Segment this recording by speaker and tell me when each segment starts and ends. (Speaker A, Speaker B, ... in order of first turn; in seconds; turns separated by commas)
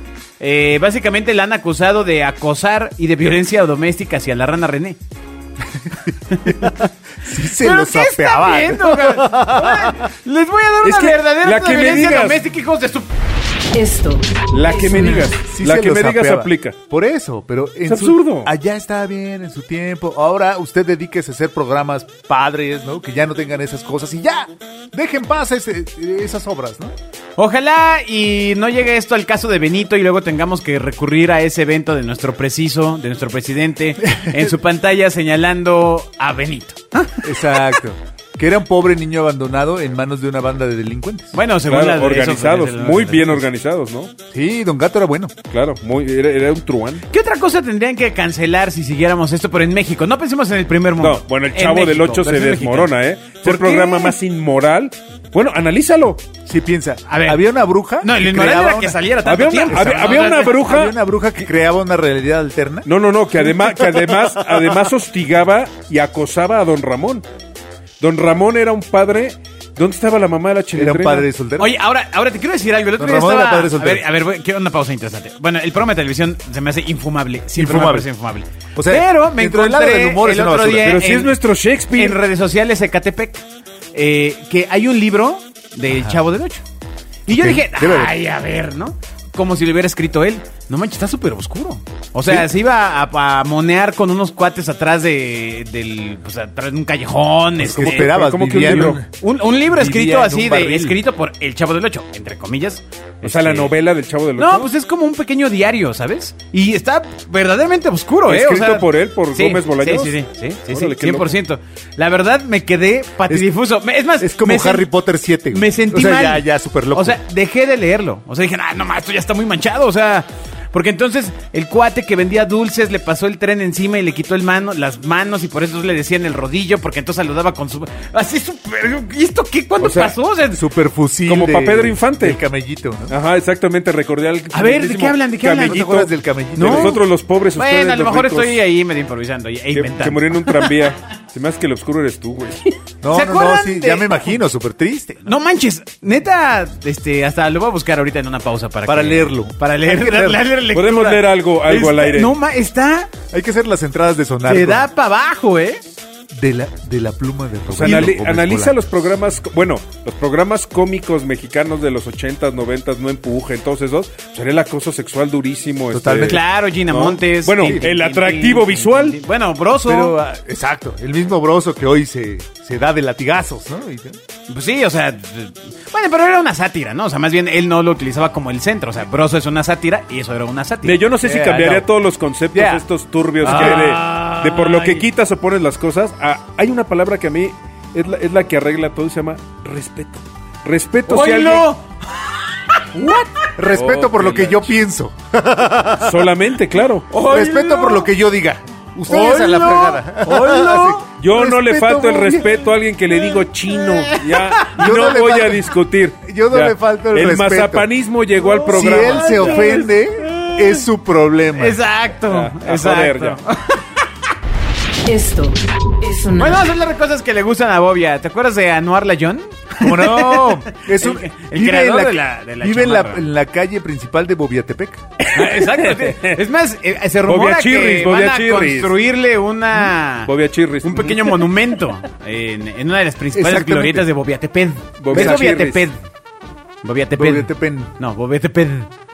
Speaker A: 0.4-5.0, Speaker B: 5.8-9.9, Speaker A: 6.3-6.8, Speaker A: 7.6-13.1, Speaker C: 10.8-12.4, Speaker D: 13.7-15.3, Speaker C: 14.5-16.8, Speaker B: 15.4-26.9, Speaker C: 17.9-18.5, Speaker A: 27.4-37.6, Speaker B: 34.0-34.5, Speaker B: 37.2-41.3, Speaker A: 41.3-43.5, Speaker C: 41.6-44.1, Speaker B: 44.3-45.4, Speaker C: 45.5-47.0, Speaker A: 47.1-52.9, Speaker C: 51.0-56.2, Speaker A: 53.4-54.1, Speaker B: 56.5-59.0, Speaker A: 57.1-57.4, Speaker A: 58.0-60.6, Speaker C: 59.2-61.0, Speaker B: 59.7-64.7, Speaker C: 62.9-67.2, Speaker C: 68.0-71.3, Speaker B: 70.8-71.7, Speaker A: 71.6-81.3, Speaker B: 73.0-74.0, Speaker B: 77.6-78.1, Speaker B: 78.8-81.0, Speaker C: 80.8-82.2, Speaker A: 81.9-86.6, Speaker B: 85.9-86.2, Speaker B: 87.3-88.1, Speaker A: 87.3-103.7, Speaker B: 97.6-99.1, Speaker C: 97.7-99.0, Speaker B: 99.7-101.0, Speaker C: 103.2-104.7, Speaker A: 104.4-114.9, Speaker C: 108.3-111.3, Speaker B: 114.2-117.2, Speaker A: 115.5-130.6, Speaker C: 129.8-130.2, Speaker B: 130.5-133.2, Speaker C: 131.3-132.4, Speaker C: 133.1-138.6, Speaker A: 134.5-135.9, Speaker B: 135.6-137.0, Speaker A: 136.6-137.0, Speaker A: 137.6-140.7, Speaker C: 139.7-142.7, Speaker B: 143.0-145.3, Speaker A: 143.1-144.4, Speaker A: 145.2-153.1, Speaker B: 148.9-150.5, Speaker C: 150.7-152.4, Speaker B: 153.3-154.9, Speaker A: 154.5-155.8, Speaker B: 156.3-158.8, Speaker C: 157.7-169.2, Speaker A: 157.8-158.1, Speaker B: 165.9-166.4, Speaker A: 166.2-170.2, Speaker B: 167.6-167.9, Speaker B: 169.8-174.2, Speaker A: 174.5-181.0, Speaker C: 180.8-191.7, Speaker B: 181.2-181.9, Speaker B: 182.5-182.8, Speaker A: 183.4-185.1, Speaker B: 183.4-183.9, Speaker A: 191.1-193.4, Speaker B: 193.6-196.2, Speaker C: 193.6-194.8, Speaker C: 196.0-197.1, Speaker A: 197.1-198.1, Speaker B: 197.2-202.5, Speaker A: 199.1-201.0, Speaker C: 201.2-209.7, Speaker A: 203.7-204.8, Speaker B: 204.8-207.9, Speaker A: 208.4-210.8, Speaker B: 208.7-211.8, Speaker A: 211.6-214.1, Speaker C: 212.3-213.4, Speaker D: 215.1-216.7, Speaker A: 216.4-223.3, Speaker B: 219.8-225.0, Speaker C: 225.2-226.4, Speaker A: 225.3-236.0, Speaker C: 227.3-229.0, Speaker C: 230.2-231.4, Speaker B: 233.3-234.1, Speaker C: 235.0-235.8, Speaker B: 235.1-235.7, Speaker A: 236.8-238.9, Speaker B: 237.2-237.9